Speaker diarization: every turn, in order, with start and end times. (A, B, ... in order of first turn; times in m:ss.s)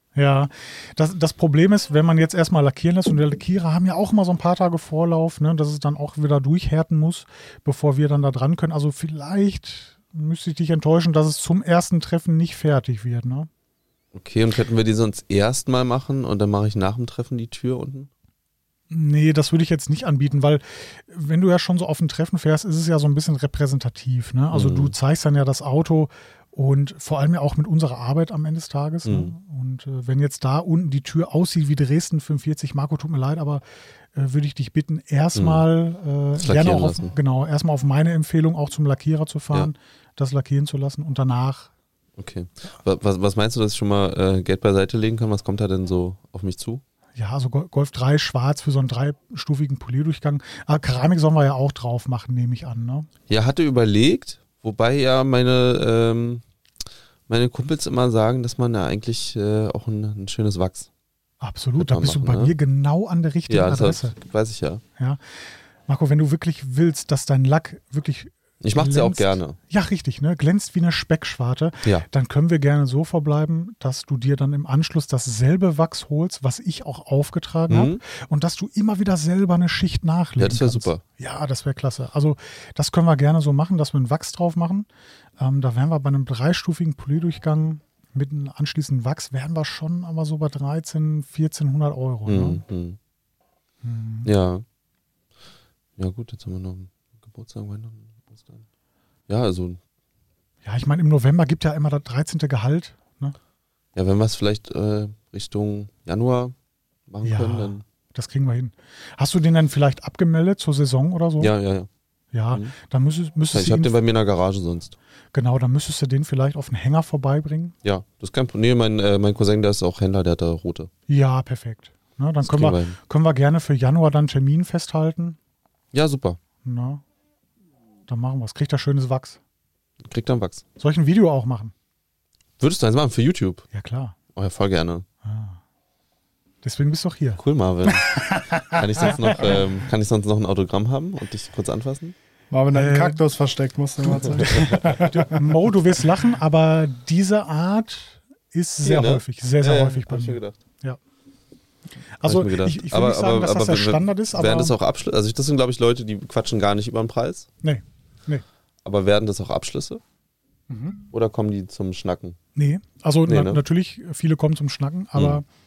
0:00.2-0:13.5 A
0:14.1-0:18.1 B
0:18.9-0:33.6 A
0:24.5-0:25.0 B
0:29.0-0:29.3 B
0:34.1-0:41.7 A
0:35.4-0:35.6 B
0:36.4-0:37.1 B
0:42.2-0:46.8 B
0:47.2-0:53.1 A
0:53.3-0:56.4 B
0:57.3-1:00.9 B
1:01.4-1:04.2 A
1:01.8-1:02.5 B
1:03.5-1:04.8 B
1:05.9-1:24.9 A
1:08.6-1:09.6 B
1:17.7-1:18.0 B
1:20.4-1:21.0 B
1:25.4-1:32.6 A
1:32.3-1:33.0 B
1:33.8-1:34.3 A
1:34.2-1:34.6 B
1:36.0-1:38.6 B
1:39.3-1:39.8 B
1:40.6-1:43.4 A
1:44.0-1:46.6 B
1:47.1-1:47.8 B
1:47.2-1:51.5 A
1:51.4-1:51.9 B
1:52.3-1:53.9 A
1:53.5-1:55.0 B
1:55.3-1:57.7 A
1:57.8-2:00.9 B
2:01.1-2:05.4 A
2:02.4-2:03.0 B
2:05.9-2:06.4 B
2:06.6-2:07.0 A
2:08.1-2:09.4 A
2:10.0-2:10.7 B
2:10.8-2:11.7 A
2:12.6-2:13.6 B
2:13.7-2:14.2 A
2:14.4-2:15.0 B
2:15.2-2:15.6 A
2:16.6-2:17.4 A
2:17.4-2:22.1 B
2:17.9-2:19.1 C
2:19.2-2:19.6 A
2:22.5-2:25.4 C
2:22.7-2:23.2 A
2:24.4-2:24.9 B
2:24.5-2:31.0 A
2:28.8-2:30.6 B
2:32.2-2:34.7 A
2:32.2-2:37.5 B
2:37.6-2:38.4 A
2:38.8-2:40.0 B
2:41.1-2:42.4 B
2:42.6-2:45.4 A
2:43.3-2:43.6 B
2:45.2-2:45.4 B